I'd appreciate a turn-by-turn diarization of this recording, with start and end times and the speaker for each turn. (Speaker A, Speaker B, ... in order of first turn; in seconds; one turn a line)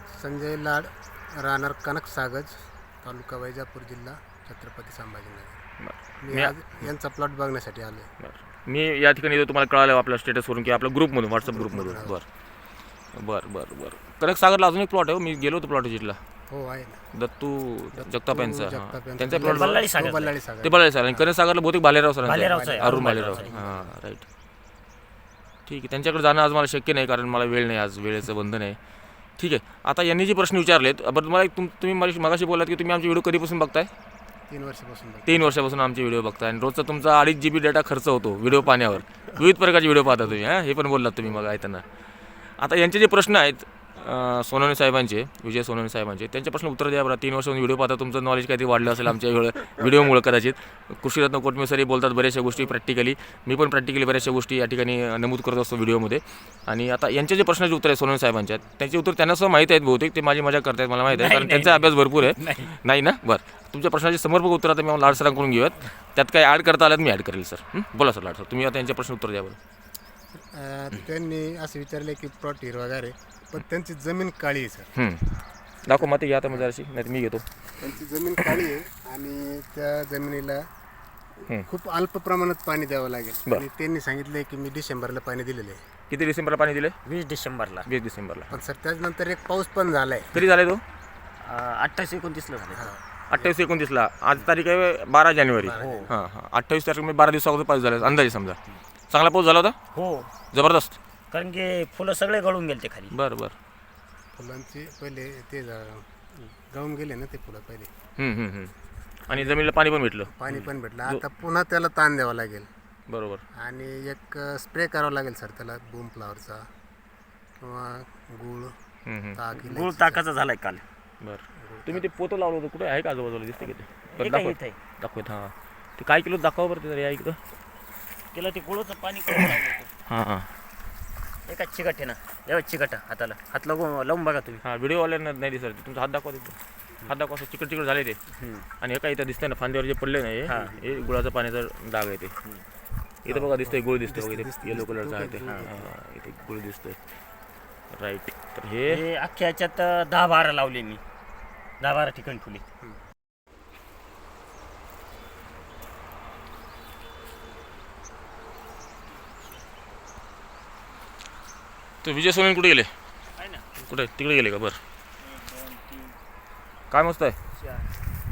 Speaker A: 0.1-5.6
Speaker B: 5.8-6.6
Speaker A: 6.2-8.1
Speaker B: 8.2-12.2
Speaker A: 11.4-12.1
Speaker B: 13.1-16.2
Speaker A: 16.5-17.0
Speaker B: 17.1-19.8
Speaker A: 17.9-21.3
Speaker C: 19.3-20.3
Speaker B: 20.6-24.2
Speaker C: 22.2-23.5
Speaker A: 22.4-23.9
Speaker B: 25.7-28.8
Speaker B: 29.4-33.9
Speaker A: 34.5-35.5
Speaker B: 35.3-41.8
Speaker B: 42.6-69.6
Speaker C: 61.1-62.7
Speaker A: 70.3-74.9
Speaker B: 74.9-75.3
Speaker B: 75.8-77.4
Speaker A: 75.9-76.6
Speaker A: 77.8-80.6
Speaker B: 78.4-78.7
Speaker A: 81.4-85.8
Speaker B: 86.1-87.0
Speaker C: 87.0-87.9
Speaker B: 87.9-88.6
Speaker A: 88.5-90.4
Speaker B: 90.3-90.8
Speaker C: 91.4-92.9
Speaker A: 92.7-93.5
Speaker B: 93.3-98.6
Speaker A: 95.6-96.1
Speaker C: 95.7-96.1
Speaker B: 99.1-99.8
Speaker C: 99.9-100.3
Speaker B: 100.5-101.0
Speaker C: 101.3-103.1
Speaker B: 103.1-103.5
Speaker A: 104.3-107.9
Speaker B: 108.2-108.7
Speaker B: 109.3-111.2
Speaker A: 109.3-109.6
Speaker A: 110.2-112.7
Speaker B: 113.1-113.4
Speaker A: 113.5-116.7
Speaker A: 117.6-118.7
Speaker B: 119.0-119.4
Speaker A: 119.3-120.2
Speaker C: 119.6-120.8
Speaker B: 121.2-127.4
Speaker A: 121.5-122.0
Speaker C: 124.1-124.8
Speaker C: 128.3-129.9
Speaker B: 130.1-130.5
Speaker C: 131.5-134.6
Speaker B: 134.6-136.6
Speaker B: 137.1-138.2
Speaker C: 138.3-138.7
Speaker B: 138.8-142.3
Speaker C: 140.4-140.8
Speaker A: 143.2-145.9
Speaker B: 143.3-147.0
Speaker B: 147.9-149.0
Speaker C: 148.9-151.0
Speaker C: 151.8-152.6
Speaker B: 162.0-162.9
Speaker C: 163.4-163.7
Speaker B: 163.9-164.8
Speaker C: 165.6-166.0
Speaker B: 166.9-167.3
Speaker C: 167.6-167.9